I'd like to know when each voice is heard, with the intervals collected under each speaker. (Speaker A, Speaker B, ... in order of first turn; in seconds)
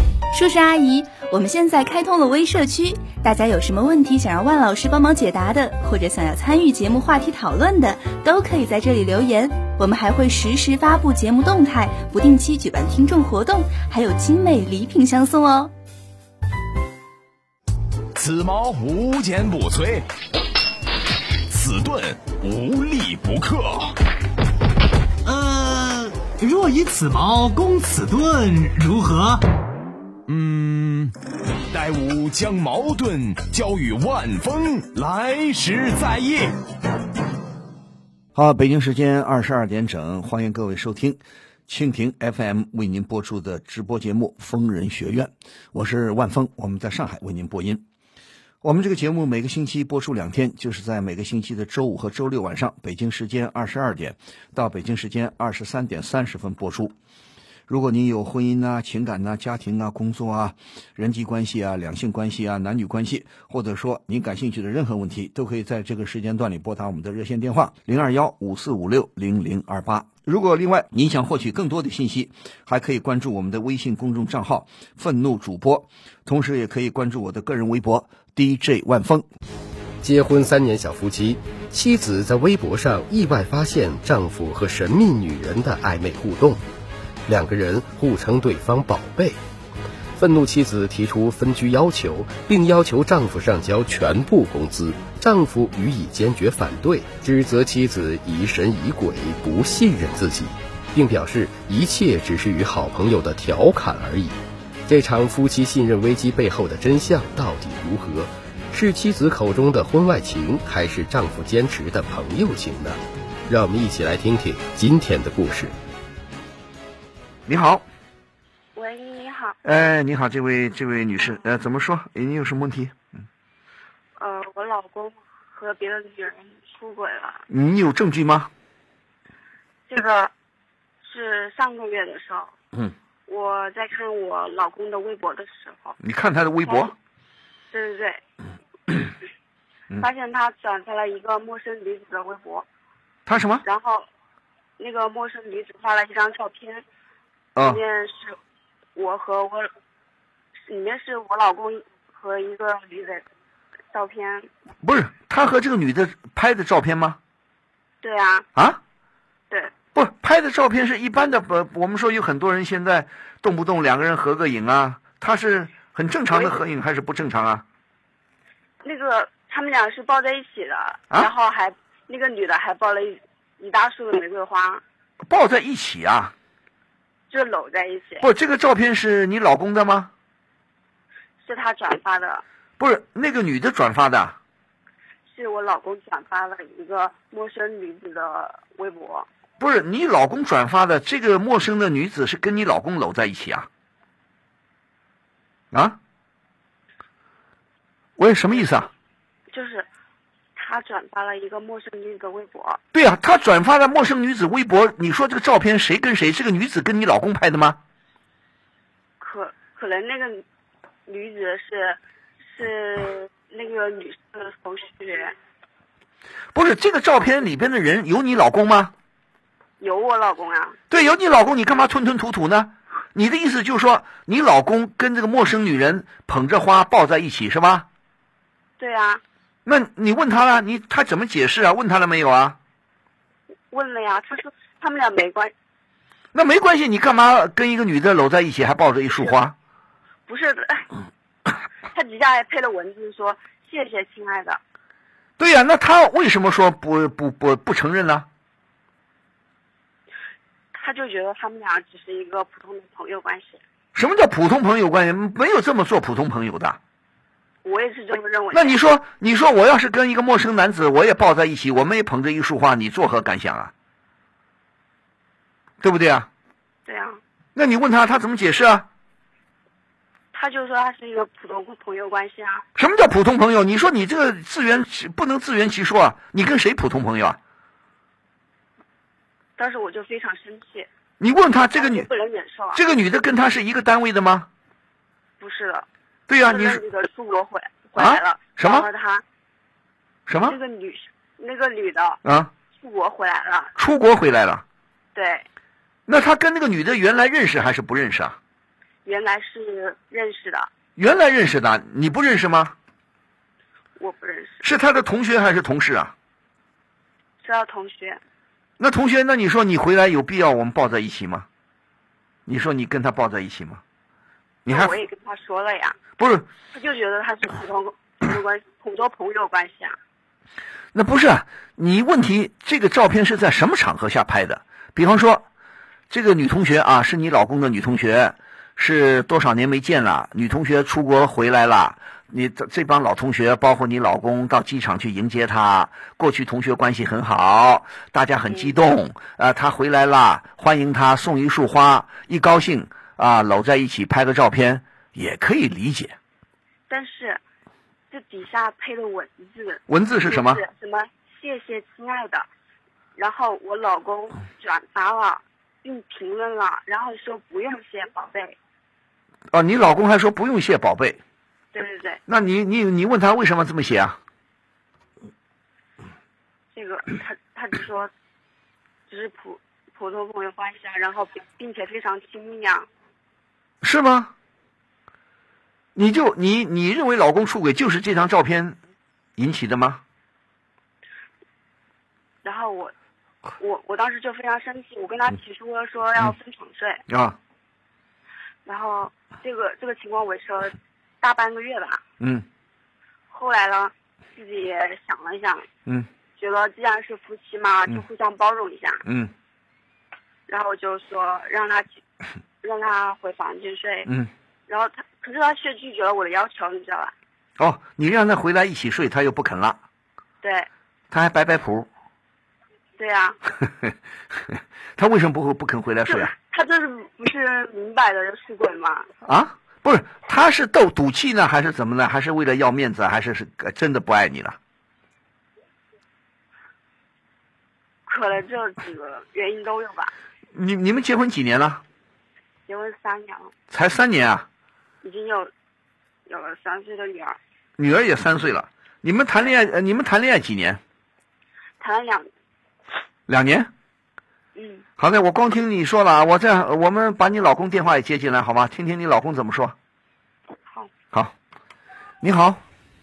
Speaker A: 0.3-15.7
Speaker B: 18.1-20.1, 21.5-23.9, 30.3-31.1, 31.7-36.5
Speaker C: 25.2-29.4
Speaker D: 38.3-47.8, 48.6-56.9, 57.7-79.2, 117.5-117.8, 119.6-123.0, 127.5-128.5, 136.0-136.9, 143.2-143.7, 147.6-147.8, 154.8-157.2, 158.6-158.8, 159.9-167.7, 175.2-176.3, 178.2-180.1, 182.8-184.4, 189.6-193.7, 195.7-196.0, 198.2-198.9, 202.9-207.8, 216.5-218.9, 220.9-227.9, 229.7-232.6, 236.3-239.6, 245.4-248.3, 253.9-256.8, 258.5-263.7, 265.8-266.3, 267.6-268.9, 272.8-277.4, 281.2-282.1, 282.7-284.5, 286.3-286.8, 287.9-288.9, 290.3-290.6, 292.2-292.5, 293.8-294.6, 296.1-298.4, 300.9-302.8, 304.6-306.1, 308.8-311.5, 312.4-313.8, 314.7-314.9, 316.2-316.5, 320.9-325.4, 326.1-346.2, 349.9-350.6, 359.5-361.2, 362.3-364.2, 373.8-374.3, 375.9-378.8, 379.4-380.0, 387.1-387.4, 392.2-392.4, 399.1-399.3, 404.1-404.3, 407.6-409.8, 411.1-411.9, 414.5-416.3, 419.2-424.6, 430.5-431.8, 433.7-434.4, 437.8-440.8, 443.3-443.7, 445.0-449.8, 452.2-452.6
Speaker E: 80.0-86.6, 87.3-89.4, 90.2-104.3, 104.9-115.7
Speaker F: 118.7-119.6, 124.2-127.5, 129.9-130.3, 131.0-132.5, 133.3-136.0, 136.7-136.9, 137.7-138.2, 140.0-142.7, 143.6-144.1, 144.8-146.8, 147.6-148.4, 149.0-149.7, 150.7-153.2, 153.9-154.5, 158.0-158.5, 166.3-166.6, 168.8-174.8, 177.3-178.3, 181.4-182.4, 185.3-189.3, 199.5-199.9, 200.6-202.8, 209.2-210.4, 211.1-212.0, 212.5-215.3, 219.8-220.8, 228.8-229.2, 233.7-235.5, 240.3-240.9, 241.9-244.6, 250.7-253.6, 257.6-258.8, 266.9-267.2, 270.3-272.6, 279.6-280.9, 281.8-282.8, 285.4-285.9, 286.5-289.2, 290.4-292.2, 292.7-293.7, 295.1-295.4, 299.1-300.7, 304.0-304.6, 307.4-308.2, 314.7-315.9, 316.7-320.0, 346.9-347.4, 348.1-352.5, 353.2-358.6, 361.7-362.2, 366.7-368.1, 369.1-372.9, 382.4-382.9, 383.6-387.0, 388.6-392.0, 393.3-395.7, 396.4-399.0, 400.5-402.0, 402.6-404.1, 404.7-407.1, 410.4-410.7, 413.0-413.4, 416.1-419.1, 428.1-430.1, 432.7-433.5, 435.0-435.5, 436.3-437.4, 441.8-442.3, 444.6-444.8